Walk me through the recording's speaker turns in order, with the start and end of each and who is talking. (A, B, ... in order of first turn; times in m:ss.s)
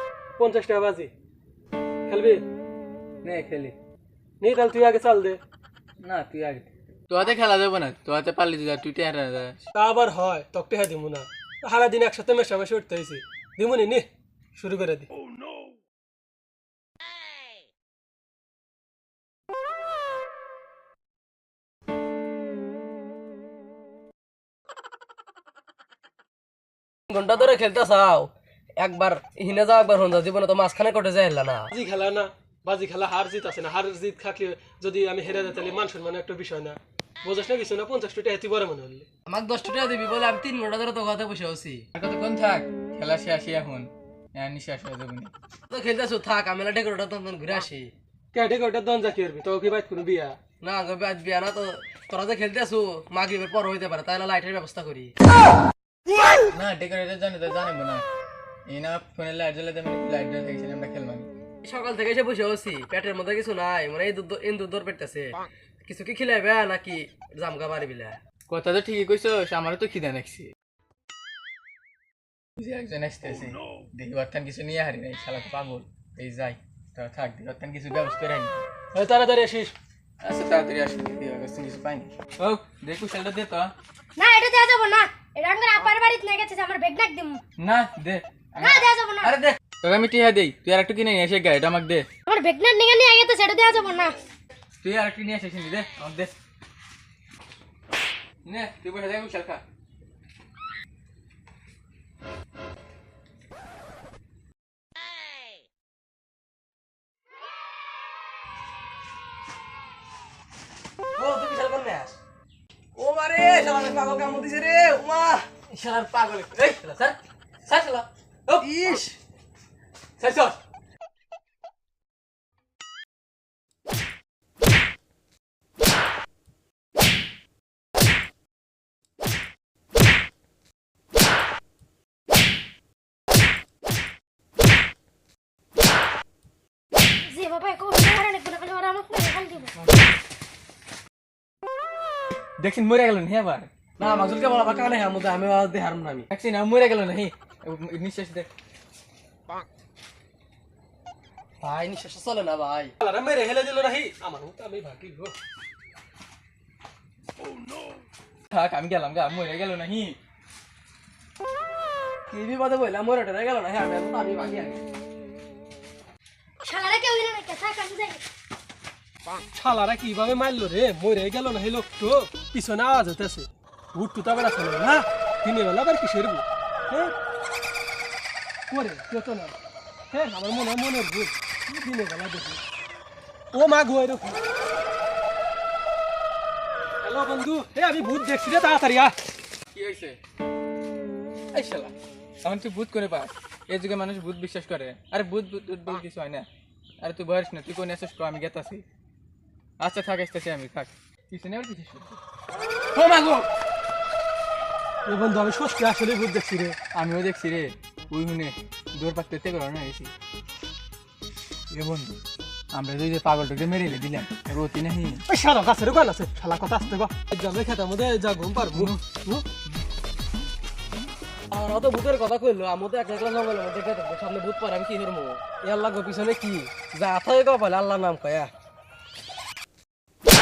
0:00.4-0:01.1 A
0:02.1-0:02.4 A
0:03.2-0:03.8 B
0:04.4-0:05.4 A
0:06.0-0:09.6 B
0:09.7-0:15.1 A
0:27.1-0:31.7 C
0:31.7-0:39.0 A
0:39.3-0:41.8 C
0:41.9-0:45.3 B
0:45.7-0:47.9 C
0:48.3-0:50.4 A
0:50.6-0:55.1 C
0:56.5-0:58.0 B
0:58.6-1:01.3 B
1:01.6-1:08.2 C
1:08.5-1:10.5 B
1:12.6-1:18.6 B
1:18.9-1:19.7 A
1:20.2-1:23.7 B
1:24.2-1:27.4 D
1:27.6-1:32.1 B
1:28.6-1:29.3 D
1:32.3-1:34.2 D
1:34.8-1:36.3 B
1:38.4-1:39.6 B
1:51.2-1:52.2 C
1:53.0-1:55.6 C
1:55.7-1:59.0 B
1:58.6-1:59.2 C
2:00.2-2:00.6 B
2:17.3-2:19.7 D
2:19.8-2:20.2 B
2:22.6-2:23.7 B
2:24.0-2:26.3 C
2:26.3-2:28.5 B
2:31.6-2:32.9 C
2:33.0-2:35.4 A
2:38.5-2:40.2 B
2:42.3-2:44.8 C
2:46.6-2:48.2 D
2:49.5-2:57.1 A
2:58.7-2:59.5 A
3:00.1-3:02.6 A
3:03.5-3:04.4 A
3:07.0-3:09.1 A
3:09.7-3:10.2 B
3:11.5-3:16.5 B
3:17.0-3:18.8 B
3:19.8-3:22.2 B
3:22.9-3:23.5 B
3:25.0-3:26.8 A
3:26.9-3:30.1 B
3:31.7-3:32.2 B
3:32.7-3:35.2 B
3:35.3-3:39.4 A
3:38.7-3:39.0 B
3:41.5-3:48.5 C